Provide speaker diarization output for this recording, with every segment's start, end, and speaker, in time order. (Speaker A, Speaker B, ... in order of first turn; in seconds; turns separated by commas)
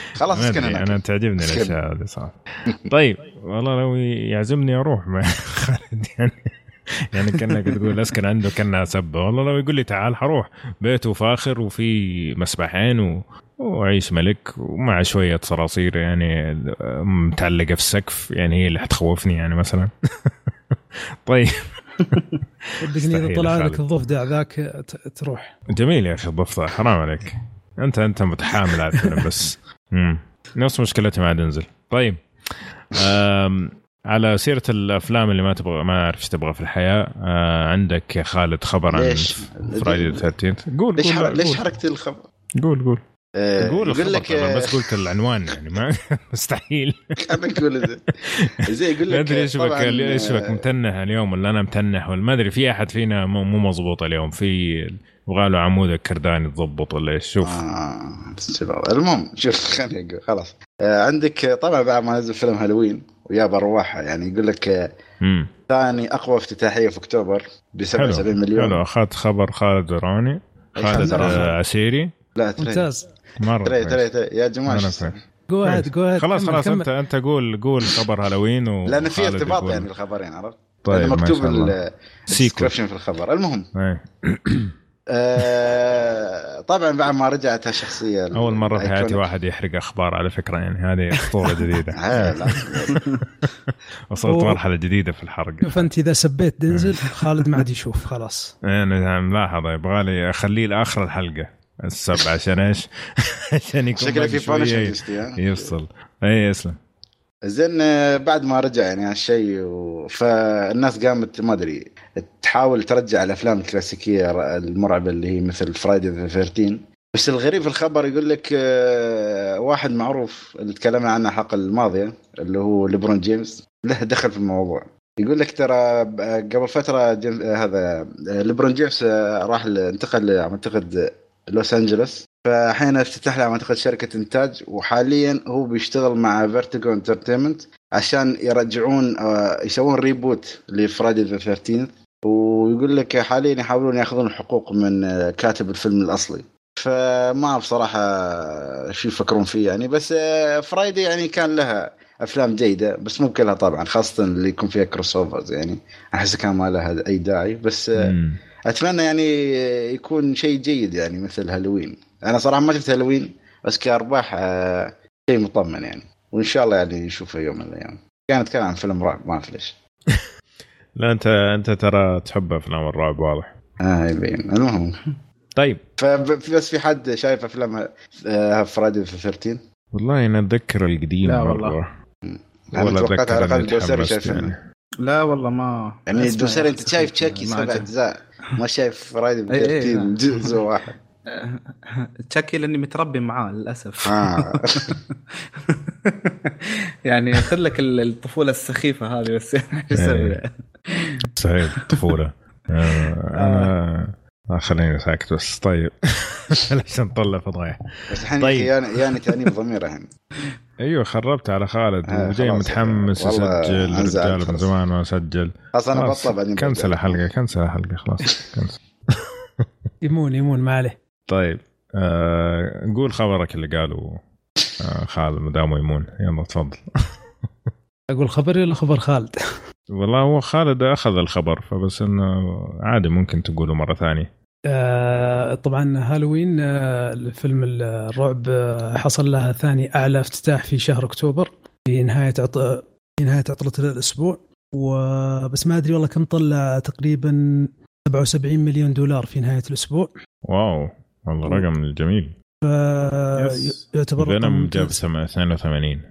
Speaker A: 0.2-1.8, Speaker B: 0.3-22.2, Speaker C: 22.8-25.5, Speaker B: 22.9-23.8, Speaker B: 25.7-41.6, Speaker A: 38.9-40.3, Speaker A: 41.0-42.2, Speaker B: 42.6-43.0, Speaker A: 43.4-44.9, Speaker B: 43.6-47.4, Speaker A: 47.3-50.6, Speaker B: 49.1-57.6, Speaker A: 57.4-64.9, Speaker B: 65.2-65.5, Speaker A: 65.7-68.8, Speaker B: 68.0-72.1, Speaker A: 70.8-71.5, Speaker C: 70.9-71.5, Speaker A: 72.4-72.9, Speaker C: 72.6-73.1, Speaker B: 73.4-74.0, Speaker A: 73.6-75.2, Speaker B: 74.7-75.1, Speaker C: 75.5-76.9, Speaker B: 75.6-79.9, Speaker A: 78.9-83.7, Speaker B: 80.8-81.8, Speaker B: 82.3-82.7, Speaker B: 83.8-84.7, Speaker A: 85.1-89.2, Speaker B: 88.3-93.1, Speaker A: 92.0-93.0, Speaker D: 92.9-93.2, Speaker B: 93.7-95.9, Speaker C: 94.3-94.6, Speaker C: 95.6-98.5, Speaker B: 98.7-106.8, Speaker A: 104.0-105.7, Speaker A: 107.5-158.1, Speaker B: 158.0-158.4, Speaker A: 158.7-169.8, Speaker B: 171.0-173.5, Speaker A: 173.8-175.0, Speaker A: 176.0-179.6, Speaker B: 179.9-181.9, Speaker D: 181.2-181.8, Speaker A: 182.2-184.5, Speaker B: 182.8-184.6, Speaker D: 185.0-187.9, Speaker A: 186.1-190.9, Speaker D: 189.5-190.6, Speaker D: 191.3-201.2, Speaker A: 194.1-195.0, Speaker B: 199.9-200.4, Speaker B: 201.4-209.2, Speaker D: 202.9-203.7, Speaker A: 208.1-210.1, Speaker B: 210.8-219.7, Speaker A: 212.1-214.7, Speaker A: 215.7-217.2, Speaker C: 220.0-221.0, Speaker B: 221.3-224.2, Speaker B: 224.8-226.8, Speaker C: 228.1-229.4, Speaker B: 229.9-234.3, Speaker C: 234.7-250.1, Speaker B: 250.4-252.3, Speaker C: 252.6-255.0, Speaker D: 253.4-253.8, Speaker B: 254.2-256.0